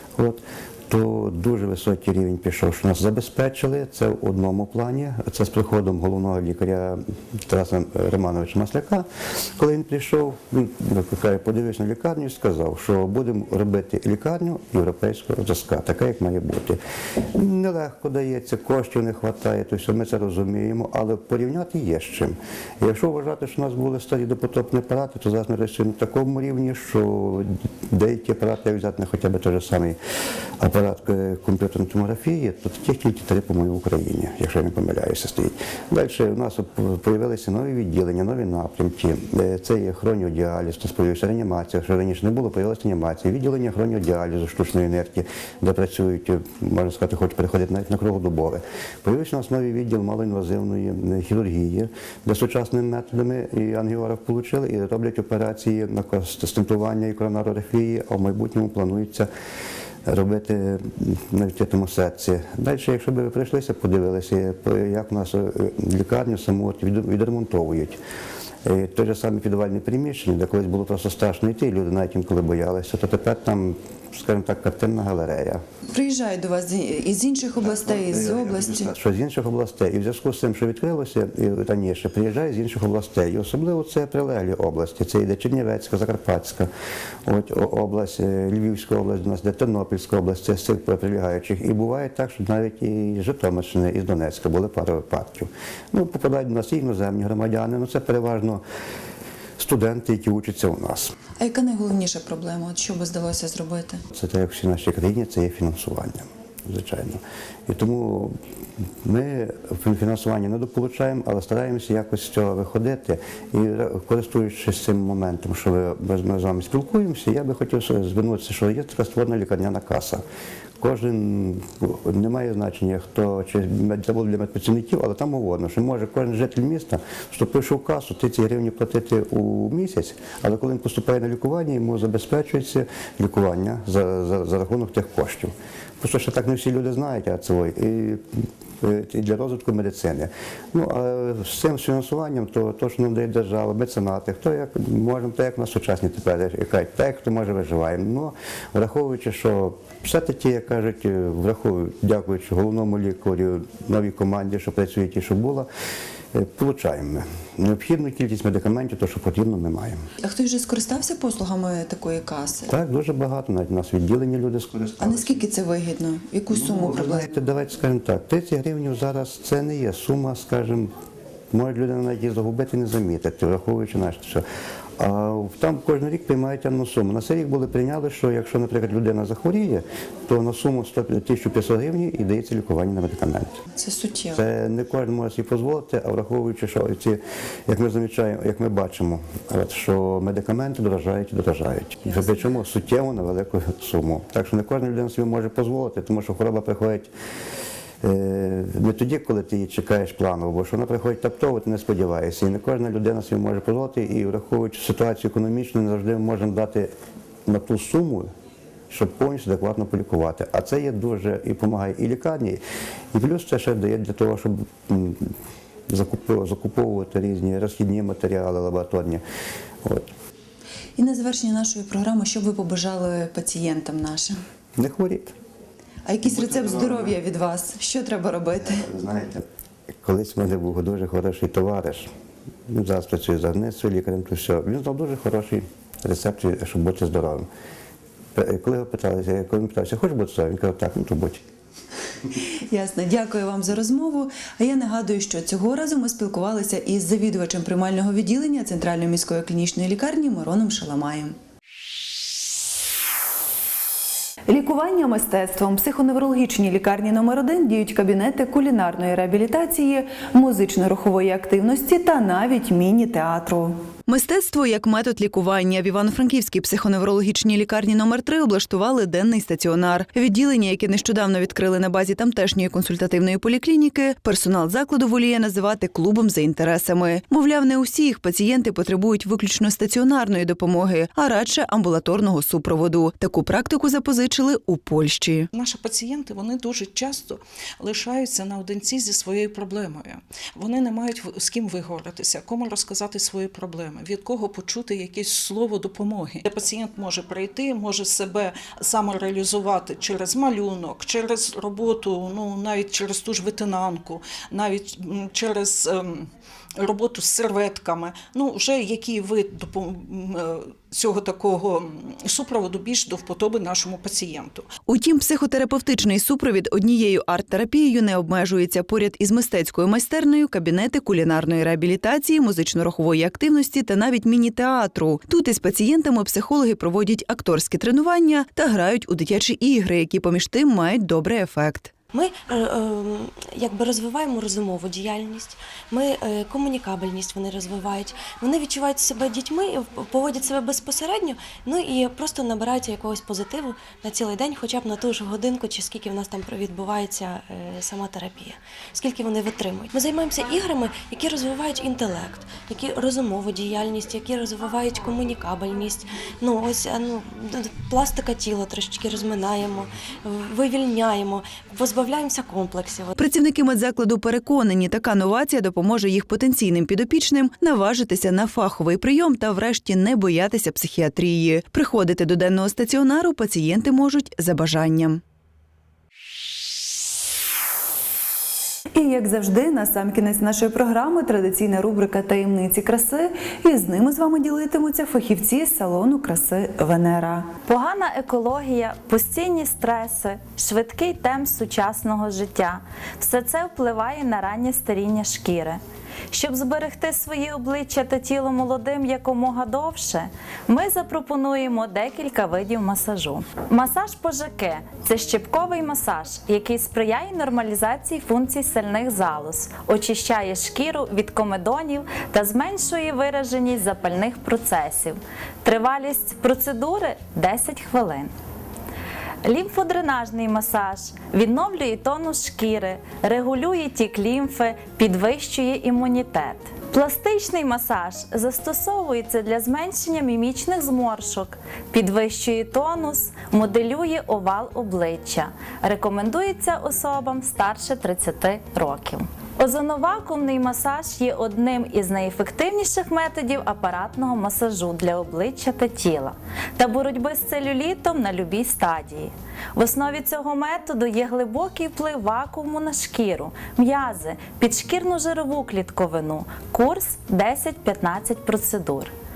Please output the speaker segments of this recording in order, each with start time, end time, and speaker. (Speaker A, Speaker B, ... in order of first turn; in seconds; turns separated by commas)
Speaker A: 0.1-16.8, Speaker A: 17.3-30.0, Speaker A: 30.6-59.3, Speaker A: 60.0-68.0, Speaker A: 68.6-75.6, Speaker B: 75.9-78.9, Speaker A: 77.8-86.7, Speaker A: 87.2-98.6, Speaker A: 99.6-101.1, Speaker B: 101.4-104.0, Speaker A: 104.1-108.3, Speaker A: 109.0-120.2, Speaker A: 120.8-138.2, Speaker A: 138.8-155.7, Speaker A: 156.3-160.1, Speaker B: 160.2-162.7, Speaker A: 162.7-165.5, Speaker B: 165.0-167.3, Speaker A: 166.5-170.9, Speaker A: 171.5-174.4, Speaker A: 175.0-183.6, Speaker B: 183.8-184.4, Speaker A: 184.3-197.1, Speaker A: 198.0-206.9, Speaker A: 207.5-208.3, Speaker A: 208.9-212.6, Speaker A: 213.1-215.3, Speaker A: 215.9-219.2, Speaker A: 219.8-220.1, Speaker B: 221.0-224.4, Speaker A: 224.8-225.3, Speaker B: 226.1-228.8, Speaker A: 226.2-227.2, Speaker A: 228.6-229.4, Speaker A: 230.0-232.1, Speaker A: 232.7-237.5, Speaker A: 238.3-241.4, Speaker B: 242.4-251.3, Speaker B: 254.5-285.5, Speaker C: 285.5-306.3, Speaker C: 306.8-314.6, Speaker B: 314.9-331.9, Speaker D: 332.1-363.1, Speaker B: 363.2-375.2, Speaker B: 378.9-387.5, Speaker E: 387.7-395.8, Speaker E: 396.3-418.3, Speaker E: 419.4-459.1